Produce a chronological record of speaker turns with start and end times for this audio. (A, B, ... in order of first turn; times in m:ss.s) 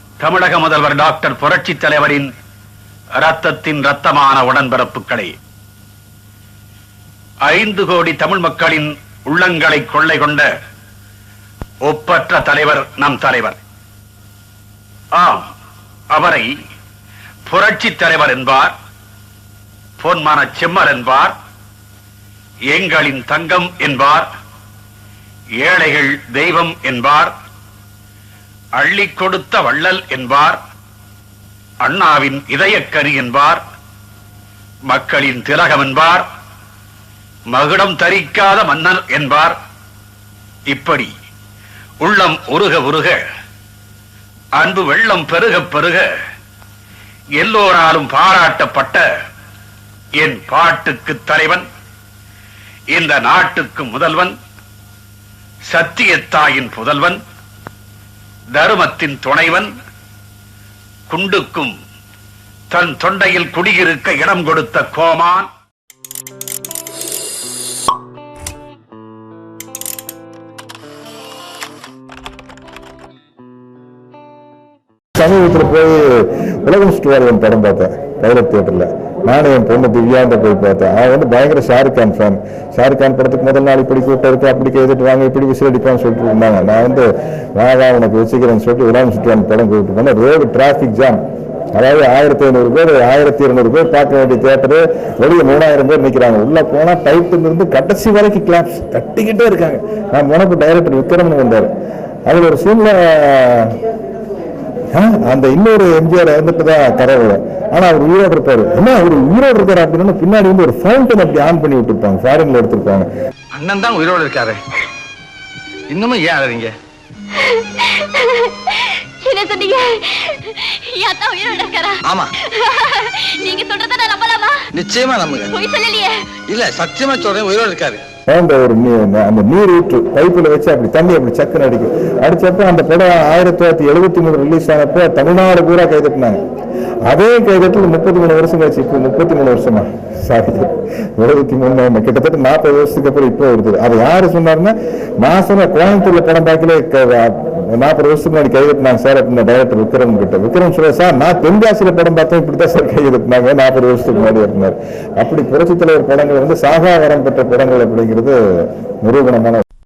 0:00.2-0:02.3 A
0:03.2-0:05.4 A
0:07.5-0:10.5 A
0:11.8-0:13.6 A
0:15.1-0:15.5 A
0:16.1-0:16.5 A
0:17.5-0:18.7 A
0:20.0-0:21.3 A
0:22.7-0:24.3 A
0:25.6-0:27.3 A
0:28.8-0:30.6 A
0:31.8-0:33.6 A
0:34.9-0:36.2 A
0:37.5-0:39.6 A
0:40.7-0:41.1 A
0:42.0-0:43.2 A
0:44.6-0:46.1 A
0:47.4-0:49.0 A
0:50.2-0:51.7 A
0:52.9-0:54.4 A
0:55.7-0:57.2 A
0:58.5-0:59.7 A
1:01.1-1:01.7 A
1:02.7-1:05.5 A
1:15.2-1:31.2 B
1:31.8-1:41.7 B
1:42.3-1:43.8 B
1:44.9-1:53.1 B
1:53.5-1:54.6 C
1:55.9-1:56.7 C
1:57.4-2:04.7 D
2:02.0-2:02.3 C
2:04.7-2:05.5 C
2:05.5-2:06.2 D
2:06.5-2:08.0 C
2:08.3-2:16.4 B
2:17.1-2:39.6 B